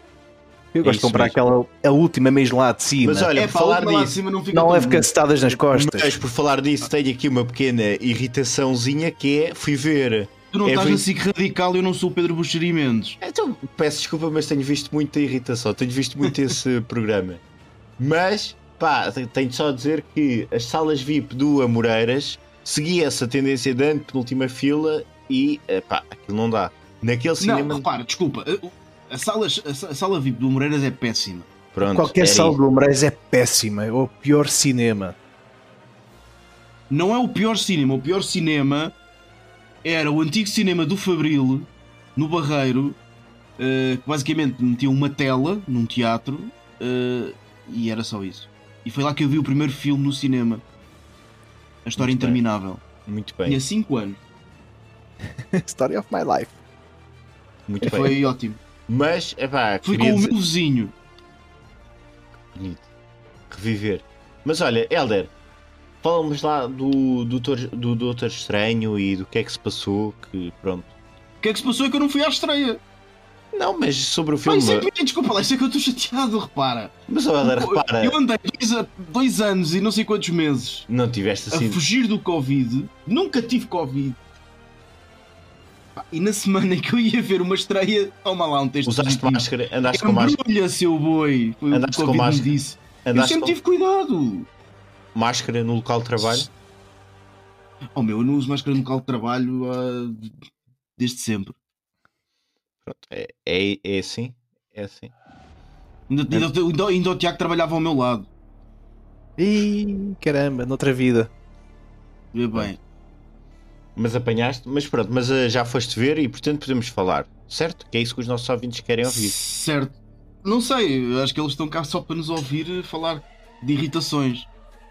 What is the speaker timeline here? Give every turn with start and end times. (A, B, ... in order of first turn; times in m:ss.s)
0:00.7-0:03.3 A
0:00.8-0:01.4 B
0:03.0-0:04.2 B
0:03.3-0:05.1 C
0:04.5-0:06.1 A
0:05.6-0:11.0 B
0:10.5-0:13.2 C
0:13.2-0:17.4 B
0:18.0-0:27.8 B
0:27.4-0:31.5 C
0:31.7-0:32.6 B
0:31.8-0:35.2 A
0:36.9-0:38.9 C
0:39.8-0:43.0 C
0:43.6-0:50.6 C
0:51.8-0:52.8 C
0:52.0-0:52.4 B
0:53.0-0:53.6 B
0:53.4-0:54.2 C
0:55.4-0:56.5 A
0:57.7-0:58.2 B
0:57.8-0:58.6 C
0:58.9-1:00.3 B
0:59.8-1:00.9 C
1:02.5-1:02.8 B
1:03.5-1:05.3 B
1:06.0-1:10.9 B
1:11.4-1:12.8 C
1:13.5-1:14.9 B
1:14.4-1:20.9 C
1:17.1-1:18.2 B
1:20.9-1:21.8 B
1:21.5-1:24.2 C
1:26.0-1:34.5 C
1:28.8-1:30.4 B
1:31.7-1:32.5 B
1:33.0-1:33.6 B
1:35.1-1:36.5 B
1:37.9-1:40.3 C
1:41.0-1:41.6 C
1:42.8-1:45.1 B
1:46.1-1:48.3 C
1:49.4-1:51.3 A
1:52.3-1:52.8 C
1:54.0-1:59.3 B
1:59.0-2:04.5 C